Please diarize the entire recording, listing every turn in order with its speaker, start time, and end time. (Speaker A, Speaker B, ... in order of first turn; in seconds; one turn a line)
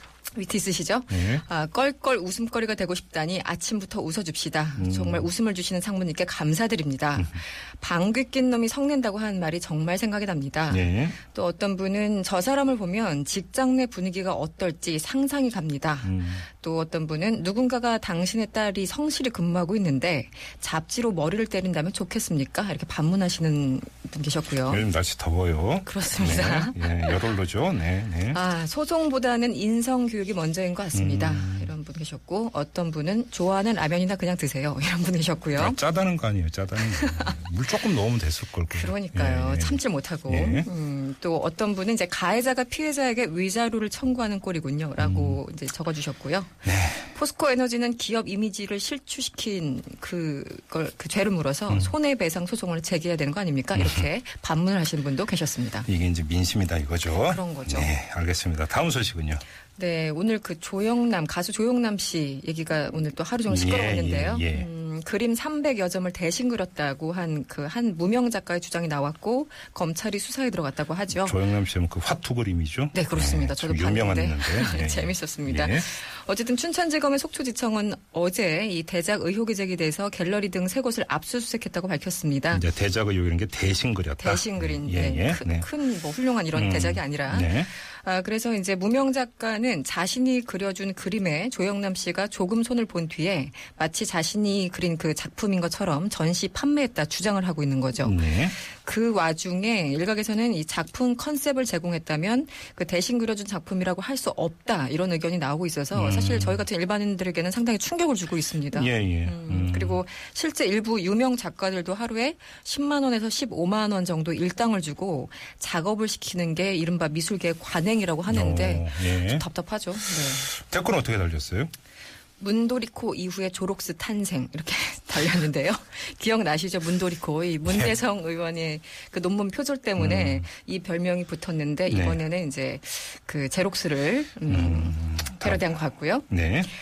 Speaker A: 0.3-24.9
Speaker B: 1.1-1.4
Speaker B: 4.8-5.3
Speaker B: 10.7-11.2
Speaker B: 16.0-16.4
Speaker B: 24.7-28.4
Speaker A: 25.8-27.2
Speaker A: 28.3-35.8
Speaker B: 30.9-31.7
Speaker B: 35.5-40.7
Speaker A: 37.0-37.3
Speaker A: 38.7-55.9
Speaker B: 45.0-45.4
Speaker B: 46.6-47.1
Speaker B: 53.7-54.0
Speaker B: 55.9-59.4
Speaker A: 57.1-57.9
Speaker A: 59.8-71.4
Speaker B: 63.5-64.7
Speaker B: 71.1-75.9
Speaker A: 72.9-82.6
Speaker B: 82.5-85.7
Speaker A: 84.2-120.5
Speaker B: 86.5-87.7
Speaker B: 98.0-98.5
Speaker B: 105.9-106.6
Speaker B: 108.7-110.0
Speaker B: 118.3-119.4
Speaker B: 120.1-121.7
Speaker A: 122.4-136.3
Speaker B: 127.7-127.9
Speaker B: 130.0-130.5
Speaker B: 131.9-132.2
Speaker B: 134.5-135.7
Speaker B: 136.3-136.7